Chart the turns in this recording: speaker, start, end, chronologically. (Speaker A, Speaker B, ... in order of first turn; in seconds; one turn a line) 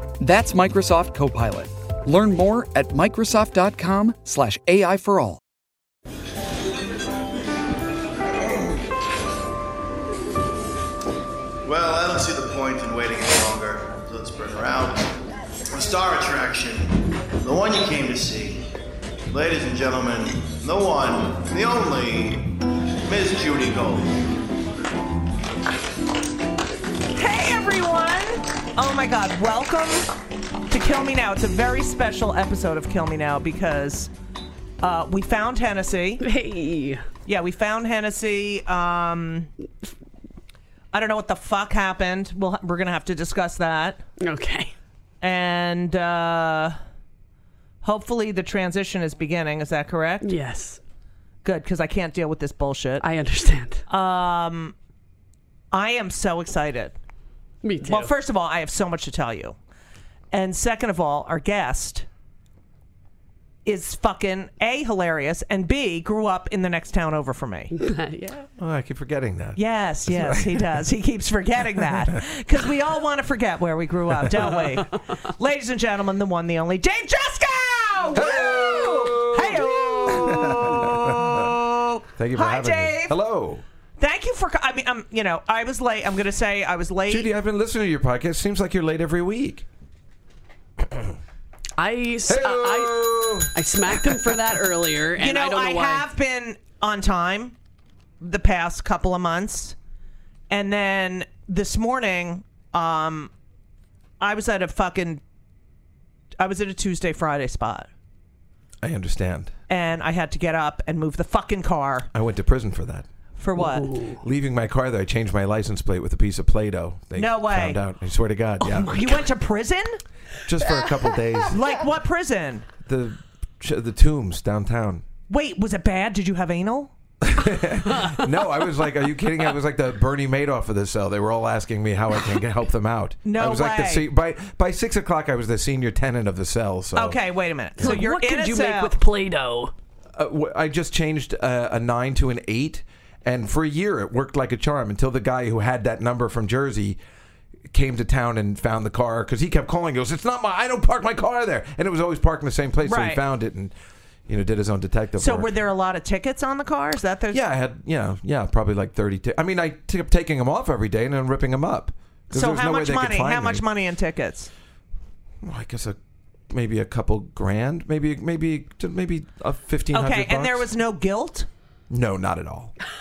Speaker A: 0.2-5.4
Speaker B: 11.6-15.2
Speaker B: 15.7-18.7
Speaker B: 19.3-24.1
Speaker C: 27.1-30.1
Speaker C: 30.7-34.1
Speaker C: 34.8-36.2
Speaker D: 36.2-37.0
Speaker C: 37.3-39.5
Speaker C: 40.9-44.0
Speaker D: 44.2-44.7
Speaker C: 45.2-46.8
Speaker C: 47.8-50.3
Speaker D: 50.2-50.8
Speaker C: 51.4-53.0
Speaker D: 53.0-53.8
Speaker C: 53.9-54.8
Speaker C: 55.7-57.0
Speaker D: 57.6-58.1
Speaker C: 57.8-59.6
Speaker C: 60.3-62.1
Speaker C: 63.6-67.8
Speaker D: 67.7-68.5
Speaker E: 68.6-70.8
Speaker C: 69.6-83.2
Speaker E: 78.1-81.6
Speaker D: 79.9-80.5
Speaker E: 82.2-83.6
Speaker C: 84.0-87.3
Speaker E: 87.1-89.7
Speaker D: 91.8-96.0
Speaker E: 92.3-94.3
Speaker C: 95.2-97.5
Speaker C: 98.2-99.8
Speaker C: 100.5-103.3
Speaker C: 104.2-105.2
Speaker C: 106.4-107.9
Speaker E: 108.8-109.5
Speaker C: 109.7-112.1
Speaker E: 112.1-113.1
Speaker C: 113.4-113.9
Speaker D: 113.6-114.2
Speaker E: 114.2-119.1
Speaker C: 117.2-117.8
Speaker C: 118.7-120.0
Speaker E: 120.5-121.6
Speaker C: 121.5-122.7
Speaker E: 122.8-125.0
Speaker C: 125.3-126.9
Speaker E: 127.2-137.2
Speaker C: 133.2-134.1
Speaker C: 136.9-138.9
Speaker D: 137.8-139.7
Speaker E: 140.2-147.0
Speaker E: 147.7-153.7
Speaker C: 152.8-153.2
Speaker E: 154.3-155.5
Speaker C: 155.2-157.4
Speaker E: 157.3-163.6
Speaker C: 162.3-164.5
Speaker E: 165.4-166.0
Speaker E: 166.5-170.7
Speaker C: 169.9-171.5
Speaker E: 171.9-172.8